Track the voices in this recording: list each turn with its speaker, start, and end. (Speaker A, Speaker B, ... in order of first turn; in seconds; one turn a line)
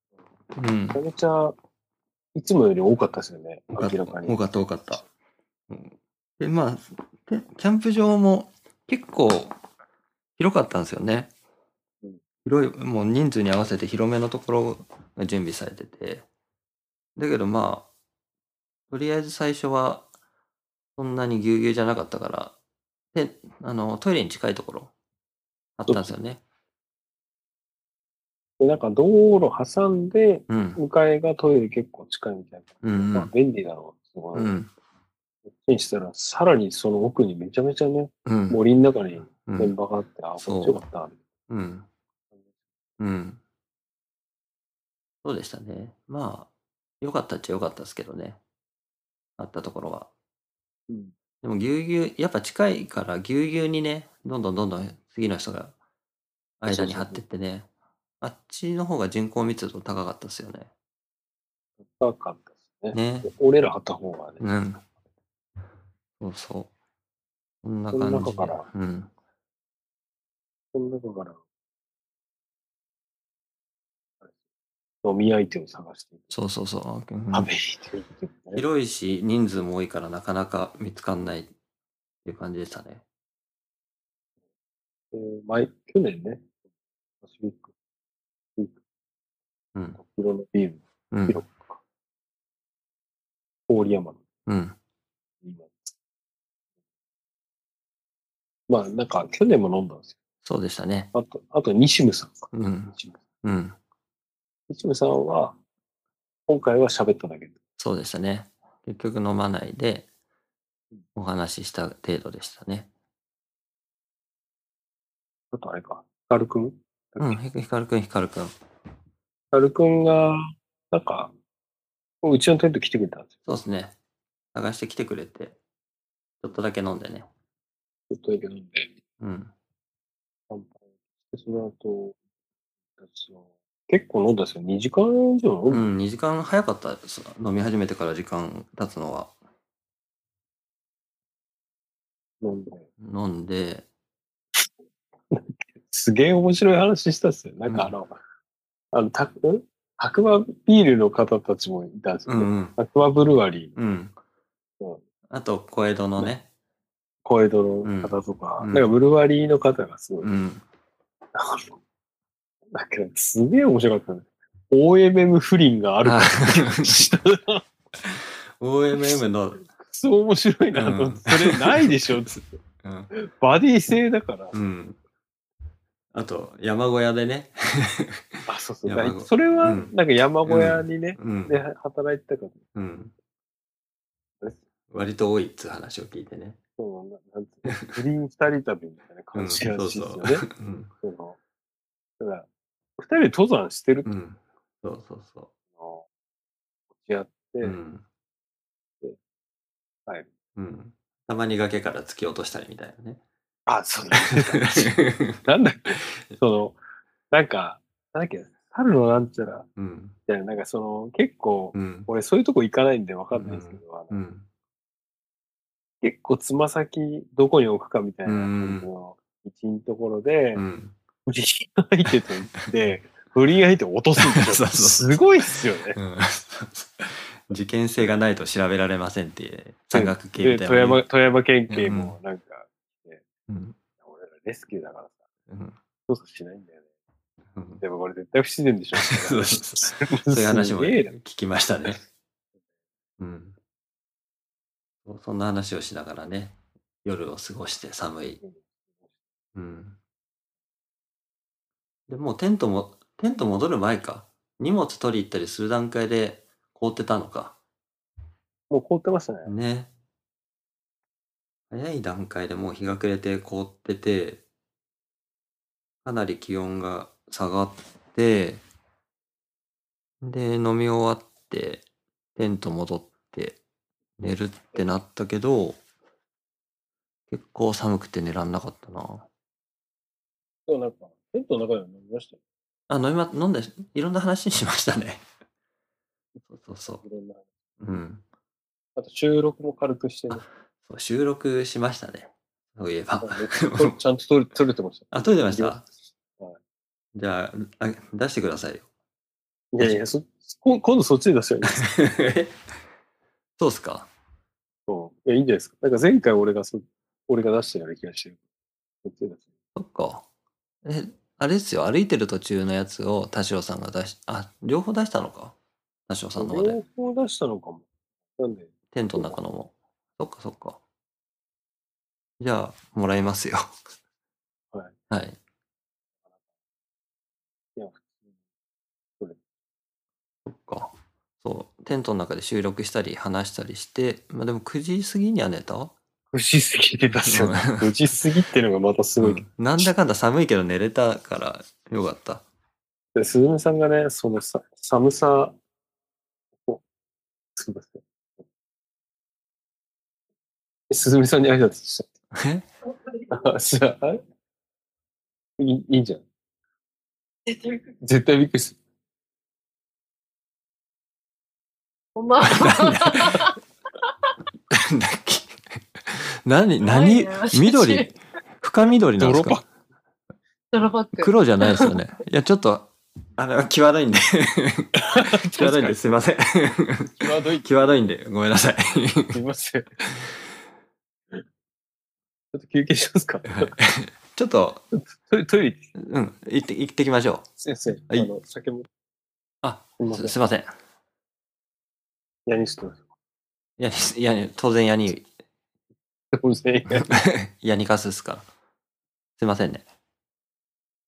Speaker A: 0.5-1.0
Speaker B: 0.9-1.6
Speaker B: 2.3-4.4
Speaker A: 3.7-5.0
Speaker A: 5.7-9.6
Speaker A: 10.4-11.3
Speaker A: 12.4-16.2
Speaker A: 17.1-17.9
Speaker A: 18.9-20.1
Speaker A: 21.0-22.5
Speaker A: 23.1-24.9
Speaker A: 25.8-26.4
Speaker B: 25.9-26.1
Speaker B: 28.6-34.6
Speaker A: 30.5-30.8
Speaker A: 32.8-33.3
Speaker A: 34.3-34.7
Speaker B: 35.5-41.2
Speaker A: 38.2-38.6
Speaker A: 39.3-39.7
Speaker A: 40.4-40.8
Speaker A: 41.5-41.9
Speaker A: 43.0-43.4
Speaker A: 45.2-46.5
Speaker A: 47.0-48.4
Speaker A: 49.4-50.1
Speaker A: 51.4-55.7
Speaker A: 56.6-57.7
Speaker B: 56.7-57.2
Speaker A: 58.2-60.7
Speaker B: 61.8-64.5
Speaker A: 62.9-63.3
Speaker A: 64.4-64.8
Speaker A: 66.2-66.7
Speaker A: 67.6-69.1
Speaker B: 67.9-68.7
Speaker B: 70.7-71.4
Speaker B: 75.0-76.3
Speaker A: 76.3-77.5
Speaker B: 77.3-78.6
Speaker A: 78.5-81.5
Speaker A: 82.2-83.0
Speaker B: 85.1-86.4
Speaker B: 87.2-87.7
Speaker B: 89.9-91.8
Speaker A: 91.1-91.4
Speaker B: 93.7-94.2
Speaker A: 94.5-94.8
Speaker B: 95.4-95.7
Speaker B: 98.7-100.1
Speaker A: 100.4-101.1
Speaker B: 101.1-103.2
Speaker A: 102.5-103.8
Speaker B: 104.7-105.6
Speaker B: 106.5-107.5
Speaker A: 107.8-110.1
Speaker A: 111.1-112.9
Speaker B: 115.5-117.4
Speaker A: 117.2-118.5
Speaker B: 119.5-120.4
Speaker B: 120.9-121.3
Speaker B: 122.2-123.3
Speaker A: 123.5-123.9
Speaker A: 124.5-125.6
Speaker A: 126.4-127.3
Speaker B: 128.1-128.9
Speaker A: 129.2-129.5
Speaker B: 130.5-130.8
Speaker B: 131.3-132.2
Speaker B: 133.0-135.9
Speaker A: 135.7-139.3
Speaker B: 142.4-142.8
Speaker A: 143.0-143.8
Speaker B: 145.3-148.2
Speaker A: 147.7-147.9
Speaker B: 148.9-153.7
Speaker A: 152.3-152.8
Speaker A: 153.8-154.1
Speaker A: 155.3-156.5
Speaker B: 157.2-160.3
Speaker A: 157.8-158.9
Speaker A: 160.2-160.6
Speaker B: 161.3-161.7
Speaker B: 162.7-167.7
Speaker A: 166.0-167.0
Speaker A: 168.0-169.6
Speaker B: 169.8-172.4
Speaker A: 170.7-173.1
Speaker B: 173.1-174.6
Speaker A: 174.5-175.0
Speaker A: 176.1-179.9
Speaker B: 178.5-182.6
Speaker A: 180.5-181.5
Speaker A: 182.7-183.1
Speaker A: 184.9-186.6
Speaker B: 186.8-190.5
Speaker A: 187.7-187.9
Speaker A: 189.3-190.9
Speaker B: 191.0-191.4
Speaker B: 192.2-192.5
Speaker B: 193.0-194.1
Speaker A: 194.0-195.5
Speaker B: 195.8-196.0
Speaker B: 196.9-197.8
Speaker A: 197.6-198.0
Speaker A: 200.6-203.2
Speaker B: 203.7-206.8
Speaker A: 204.3-205.4
Speaker B: 207.3-209.7
Speaker A: 209.8-210.1
Speaker B: 210.3-214.2
Speaker A: 211.7-212.1
Speaker A: 213.3-214.4
Speaker B: 216.0-220.6
Speaker A: 218.2-218.9
Speaker A: 220.5-220.9
Speaker B: 221.2-226.0
Speaker A: 224.2-225.2
Speaker A: 225.9-231.0
Speaker B: 229.9-233.2
Speaker A: 231.7-232.1
Speaker A: 233.5-233.8
Speaker B: 234.0-235.2
Speaker A: 235.5-235.8
Speaker B: 236.1-236.8
Speaker A: 237.5-237.8
Speaker B: 237.8-241.2
Speaker A: 239.0-242.0
Speaker A: 243.2-243.5
Speaker A: 245.1-248.4
Speaker A: 249.5-249.9
Speaker A: 252.1-257.6
Speaker B: 258.7-259.5
Speaker A: 259.4-259.9
Speaker A: 261.7-264.4
Speaker A: 266.0-268.6
Speaker A: 270.2-271.8
Speaker A: 272.4-273.6
Speaker A: 274.2-275.8
Speaker A: 277.3-279.2
Speaker B: 280.7-282.4
Speaker A: 282.9-285.2
Speaker A: 286.5-287.0
Speaker B: 287.0-287.4
Speaker A: 287.8-288.2
Speaker B: 288.9-290.4
Speaker A: 290.3-293.9
Speaker B: 293.2-295.8
Speaker A: 295.1-295.9
Speaker A: 297.1-298.9
Speaker B: 299.7-302.0
Speaker A: 301.7-302.5
Speaker A: 303.6-304.1
Speaker B: 304.9-308.4
Speaker B: 309.0-309.5
Speaker A: 309.7-310.2
Speaker A: 310.8-315.6
Speaker A: 316.1-316.8
Speaker B: 316.4-319.4
Speaker A: 318.9-320.8
Speaker A: 322.4-323.7
Speaker A: 325.1-325.4
Speaker B: 327.8-328.0
Speaker A: 330.4-335.9
Speaker B: 336.3-339.4
Speaker A: 337.3-337.9
Speaker A: 339.2-342.4
Speaker B: 343.1-345.6
Speaker B: 347.6-348.0
Speaker B: 350.9-352.1
Speaker A: 352.3-352.7
Speaker B: 353.3-354.2
Speaker B: 355.6-356.2
Speaker B: 358.0-358.8
Speaker C: 362.1-363.5
Speaker A: 362.4-363.4
Speaker A: 364.7-369.6
Speaker C: 366.8-368.1
Speaker B: 369.2-369.6
Speaker C: 370.7-371.9
Speaker A: 371.2-379.4
Speaker B: 375.0-376.2
Speaker B: 377.2-378.0
Speaker B: 379.3-379.9
Speaker B: 382.5-383.7
Speaker A: 383.5-384.8
Speaker B: 384.9-385.9
Speaker A: 386.0-387.5
Speaker B: 387.6-388.9
Speaker A: 389.6-390.7
Speaker B: 390.0-390.4
Speaker B: 392.5-393.1
Speaker A: 393.8-395.3
Speaker B: 396.3-397.1
Speaker A: 397.0-398.4
Speaker A: 399.4-399.8